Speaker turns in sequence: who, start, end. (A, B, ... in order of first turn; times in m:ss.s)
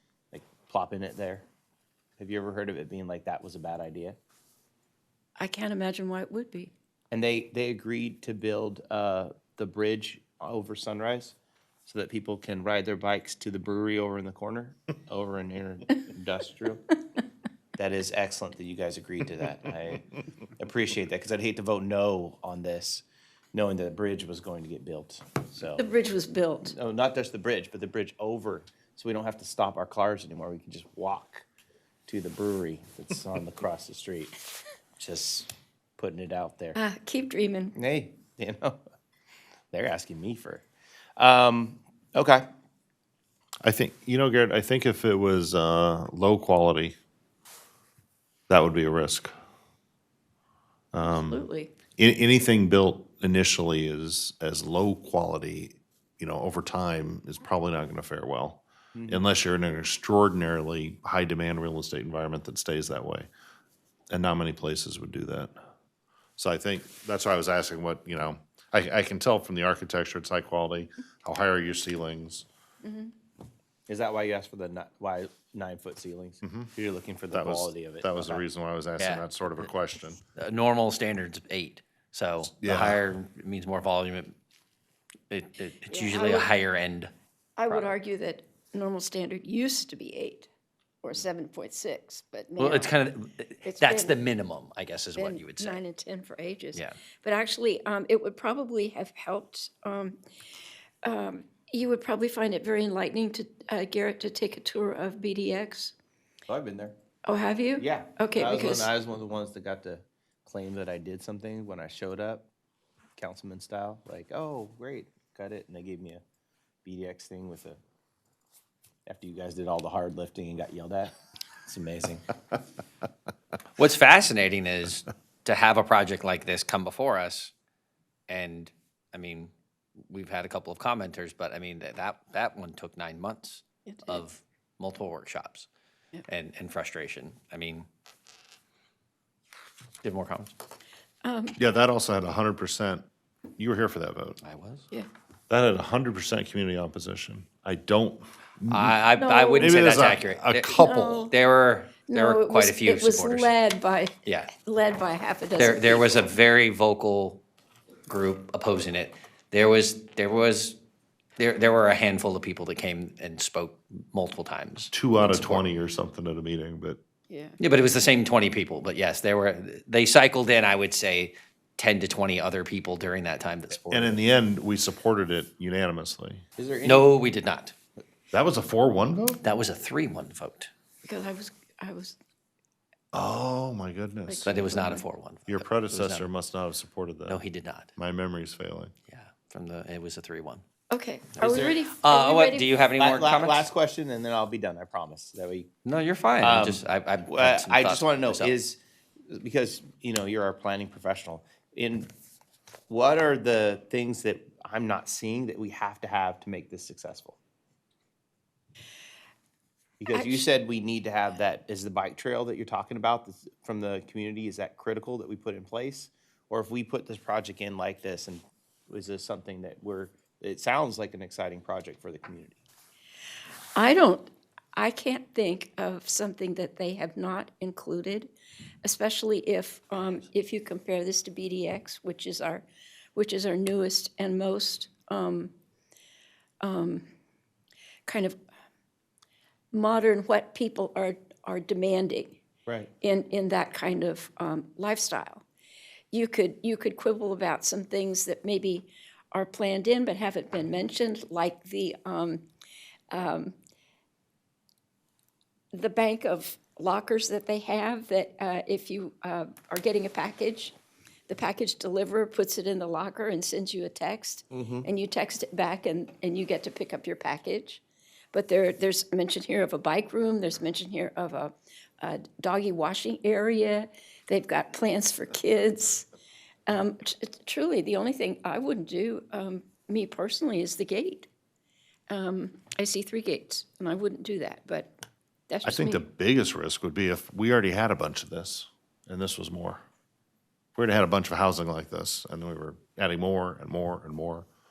0:00.3-0:01.4 A
0:02.2-0:04.2 A
0:05.4-0:06.7 B
0:07.1-0:11.4 A
0:11.9-0:16.8 A
0:17.8-0:25.9 A
0:25.8-0:26.7 B
0:26.7-0:31.5 A
0:32.1-0:34.4 A
0:35.0-0:36.8 A
0:36.8-0:37.8 B
0:37.8-0:38.8 A
0:39.7-0:40.6 A
0:41.2-0:42.5 A
0:43.6-0:47.0 C
0:48.5-0:49.3 C
0:50.9-1:03.3 C
0:51.0-0:51.7 B
0:59.0-0:59.2 A
1:04.1-1:05.5 C
1:06.4-1:12.5 C
1:12.8-1:13.1 B
1:13.9-1:18.4 A
1:16.4-1:16.7 C
1:17.3-1:20.2 C
1:19.0-1:19.3 D
1:20.4-1:24.4 D
1:22.5-1:23.0 C
1:25.3-1:27.1 D
1:25.9-1:26.5 B
1:27.6-1:30.5 B
1:27.7-1:27.9 D
1:31.0-1:32.9 B
1:32.6-1:35.8 D
1:33.6-1:34.2 B
1:35.2-1:40.2 B
1:41.0-1:46.0 B
1:46.5-1:47.0 A
1:47.3-1:48.9 B
1:47.8-1:52.5 A
1:53.2-1:56.2 A
1:56.8-1:57.8 A
1:59.1-2:01.1 A
2:01.6-2:02.2 A
2:03.8-2:07.5 D
2:08.3-2:09.5 D
2:10.1-2:15.7 D
2:13.9-2:14.2 B
2:16.3-2:17.9 D
2:20.0-2:20.5 D
2:21.2-2:21.6 B
2:21.6-2:23.0 C
2:23.6-2:24.4 C
2:24.4-2:24.9 D
2:25.5-2:29.0 C
2:28.7-2:33.5 D
2:29.2-2:29.9 B
2:29.6-2:31.3 C
2:30.8-2:31.4 B
2:32.1-2:36.3 B
2:34.3-2:34.5 D
2:35.6-2:37.4 D
2:38.1-2:40.8 D
2:41.4-2:45.6 D
2:44.9-2:47.0 C
2:47.3-2:47.6 B
2:47.6-2:54.2 D
2:53.9-2:56.4 C
2:56.6-2:57.1 A
2:56.8-2:57.7 D
2:58.3-2:59.4 C
2:59.4-3:00.7 D
3:01.1-3:02.2 B
3:03.1-3:04.6 C
3:04.3-3:05.0 B
3:04.4-3:06.3 D
3:05.5-3:07.4 C
3:07.3-3:07.9 D
3:08.0-3:08.9 C
3:09.1-3:10.6 D
3:10.9-3:12.7 B
3:11.4-3:13.7 D
3:11.4-3:11.9 A
3:13.0-3:15.7 A
3:15.8-3:18.6 D
3:16.4-3:18.8 A
3:19.3-3:22.1 A
3:22.9-3:27.4 A
3:30.0-3:42.6 A
3:30.1-3:30.4 B
3:43.8-3:48.3 B
3:48.8-3:55.5 B
3:56.6-3:57.0 B
3:58.1-3:58.4 B
3:59.7-4:02.4 B
4:03.0-4:05.4 B
4:06.1-4:12.4 B
4:13.1-4:13.6 B
4:15.7-4:20.8 B
4:21.3-4:27.8 B
4:24.5-4:24.9 A
4:28.3-4:36.1 B
4:36.7-4:41.3 B
4:42.1-4:44.9 B
4:45.5-4:46.0 B
4:45.6-4:49.8 C
4:50.8-4:54.5 C